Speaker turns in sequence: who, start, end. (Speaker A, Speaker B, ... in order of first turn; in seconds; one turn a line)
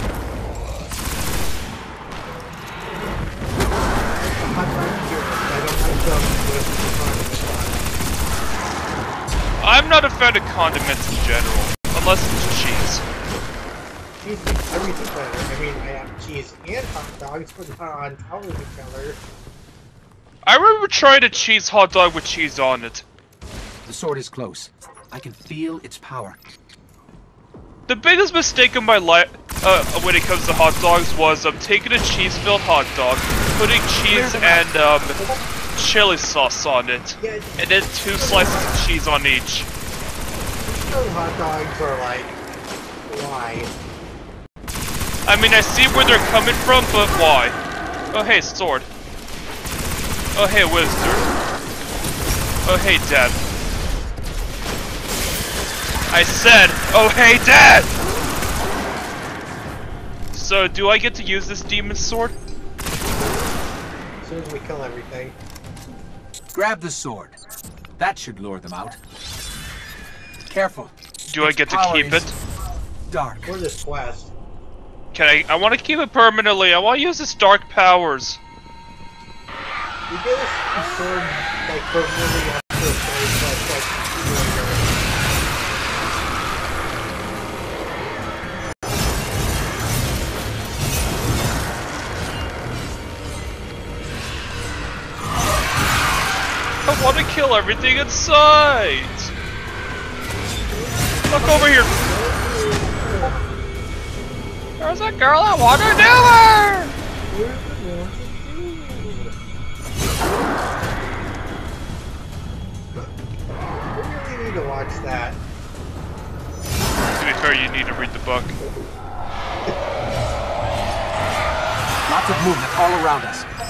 Speaker A: 4.2-7.9
Speaker B: 9.6-13.0
Speaker A: 14.2-19.2
Speaker B: 20.4-23.0
Speaker C: 23.9-26.4
Speaker B: 27.9-35.2
Speaker C: 34.0-34.7
Speaker B: 35.8-39.7
Speaker A: 37.2-38.7
Speaker A: 40.6-42.4
Speaker A: 43.1-43.7
Speaker B: 45.2-47.5
Speaker B: 48.1-48.9
Speaker B: 50.3-51.2
Speaker B: 52.6-53.4
Speaker B: 56.1-57.9
Speaker B: 60.3-62.3
Speaker A: 64.2-65.3
Speaker C: 66.5-67.4
Speaker C: 68.0-69.0
Speaker C: 70.5-72.3
Speaker B: 71.3-72.3
Speaker C: 73.1-73.5
Speaker A: 73.5-74.3
Speaker B: 75.1-78.4
Speaker A: 80.1-85.0
Speaker B: 96.8-99.3
Speaker A: 100.7-103.4
Speaker B: 101.3-101.9
Speaker B: 104.8-106.9
Speaker A: 107.3-109.3
Speaker A: 113.9-115.4
Speaker B: 117.1-118.5
Speaker C: 122.0-123.5